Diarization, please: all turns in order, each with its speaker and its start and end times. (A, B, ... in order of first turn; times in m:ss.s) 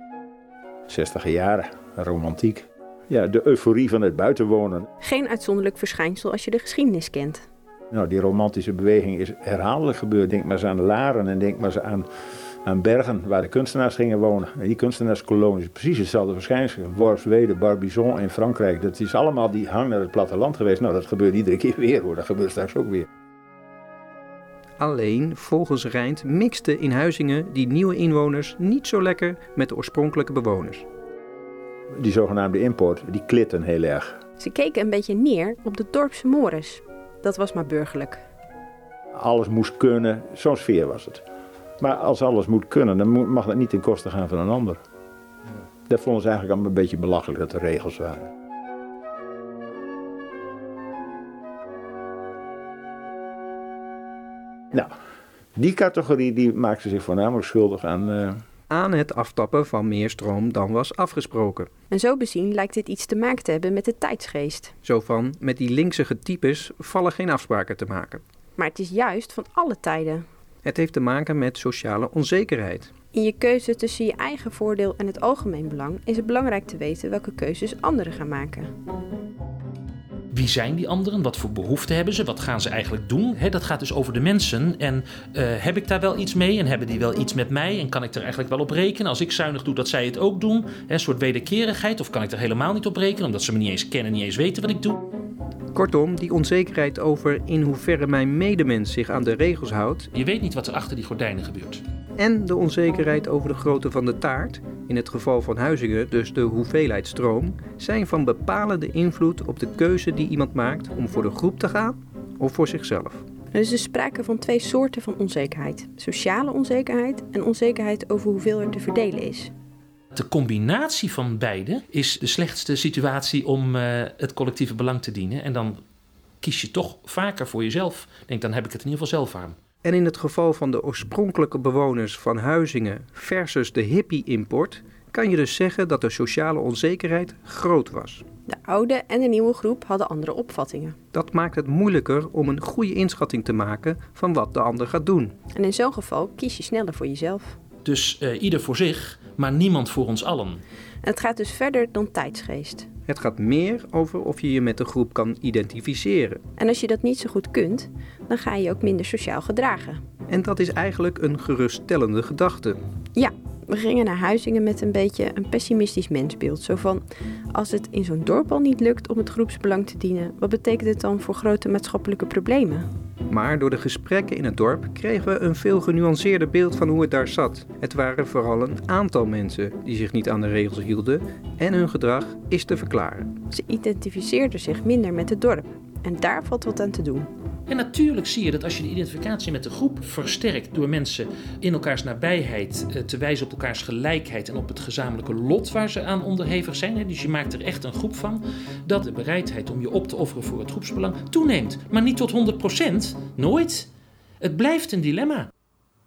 0:00.9-0:04.9 A
0:05.0-0:07.4 B
0:07.9-0:12.1 A
0:12.6-0:23.1 A
0:24.8-0:30.9 C
0:32.0-0:34.2 A
0:34.4-0:38.2 B
0:39.1-0:41.2 A
0:41.8-0:44.8 A
0:45.9-0:48.3 A
0:55.6-0:58.4 A
0:58.7-1:01.7 C
1:01.9-1:04.7 B
1:04.8-1:08.2 C
1:08.6-1:10.2 B
1:10.6-1:12.9 C
1:13.1-1:18.7 B
1:20.3-1:35.0 D
1:35.7-1:40.1 C
1:40.1-1:41.8 D
1:42.2-1:53.2 C
1:53.5-1:59.5 B
2:00.1-2:05.8 D
2:06.4-2:09.6 D
2:09.8-2:18.2 C
2:18.5-2:21.0 B
2:21.1-2:25.4 C
2:25.6-2:27.6 B
2:27.8-2:30.6 D
2:31.0-2:32.9 B
2:33.1-2:36.4 C
2:36.6-2:40.0 B
2:40.3-2:42.8 C
2:43.2-2:52.9 B
2:53.3-3:03.4 C
3:03.5-3:07.3 B
3:07.7-3:23.9 D
3:24.4-3:25.5 D